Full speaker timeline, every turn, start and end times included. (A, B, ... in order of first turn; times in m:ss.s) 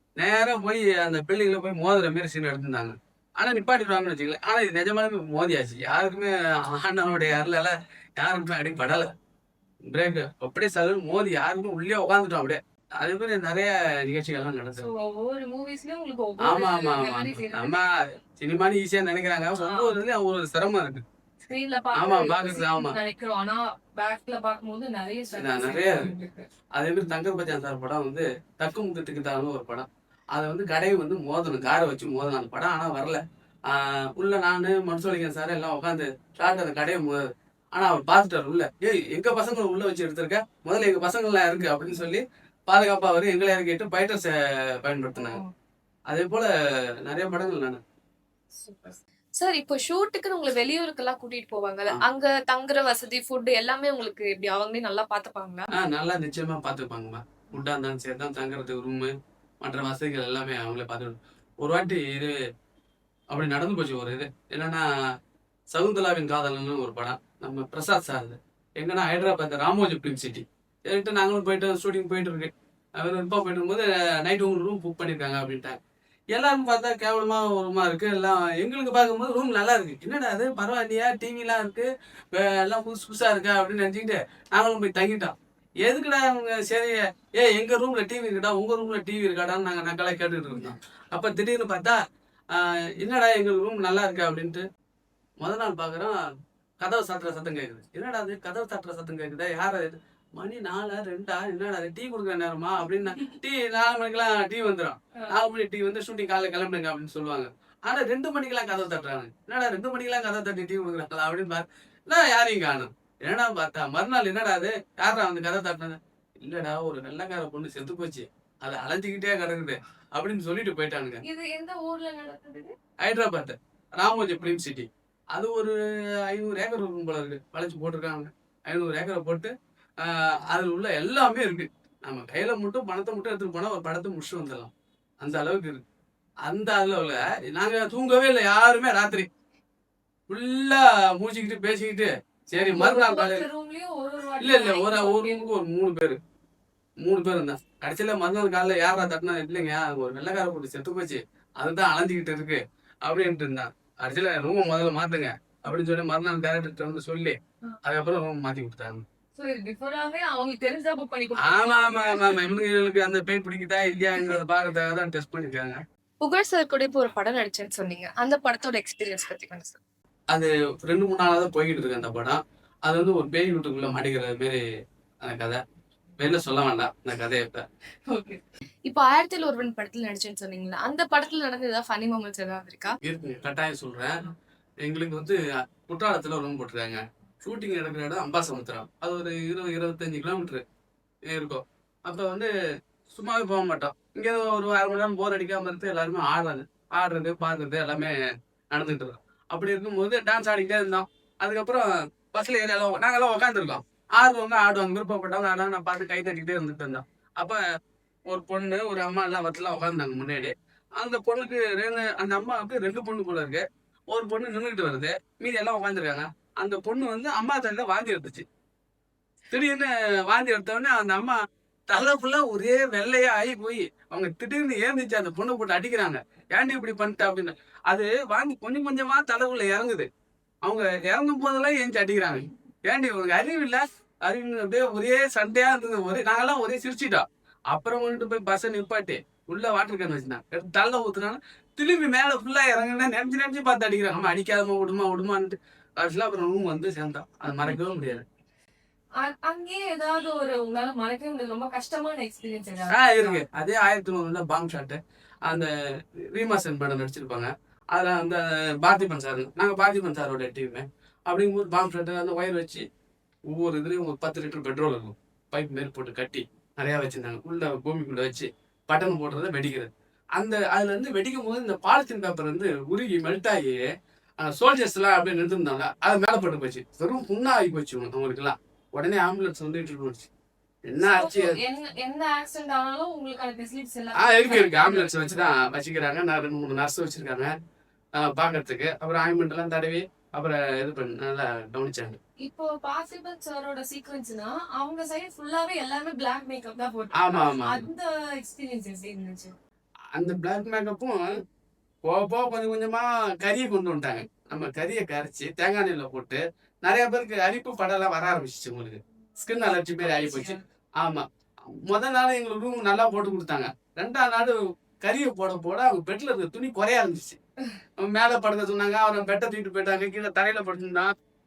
0:00.2-0:09.1 A
0:09.9-0:14.9 A
0:14.8-0:17.8 B
0:16.4-0:21.0 A
0:19.6-0:20.0 B
0:21.5-0:26.5 B
0:21.9-0:23.0 A
0:25.3-0:26.1 A
0:26.8-0:45.4 A
0:46.1-0:46.5 A
0:47.0-0:47.8 A
0:48.6-0:55.7 C
0:55.7-1:02.4 A
1:03.3-1:04.9 A
1:05.7-1:15.8 A
1:16.3-1:32.0 A
1:32.5-1:34.7 A
1:35.4-1:36.2 A
1:36.8-2:01.2 A
2:01.2-2:02.7 B
2:03.0-2:15.8 A
2:16.4-2:19.3 A
2:20.3-2:23.5 A
2:22.6-2:25.5 B
2:24.4-2:26.2 A
2:27.0-2:39.0 A
2:39.4-2:42.4 B
2:41.4-2:45.8 A
2:46.2-2:49.8 C
2:50.3-2:54.6 A
2:55.2-2:55.6 A
2:56.2-2:57.6 A
2:58.1-2:58.4 B
2:58.9-3:03.0 C
3:03.0-3:04.2 A
3:04.8-3:10.6 A
3:11.3-3:12.5 A
3:13.1-3:18.2 A
3:18.7-3:27.6 A
3:28.3-3:38.5 A
3:39.5-3:41.4 A
3:41.9-3:50.1 A
3:50.6-4:08.3 A
4:09.2-4:13.4 B
4:12.9-4:15.7 A
4:16.3-4:22.9 A
4:23.5-4:33.9 A
4:34.4-4:40.3 A
4:40.9-4:41.6 A
4:41.0-4:45.4 B
4:44.2-4:47.5 A
4:48.2-4:52.2 A
4:52.4-4:59.5 B
4:57.1-4:57.9 A
5:00.2-5:01.3 A
5:02.0-5:17.4 A
5:10.0-5:10.6 B
5:18.0-5:21.1 A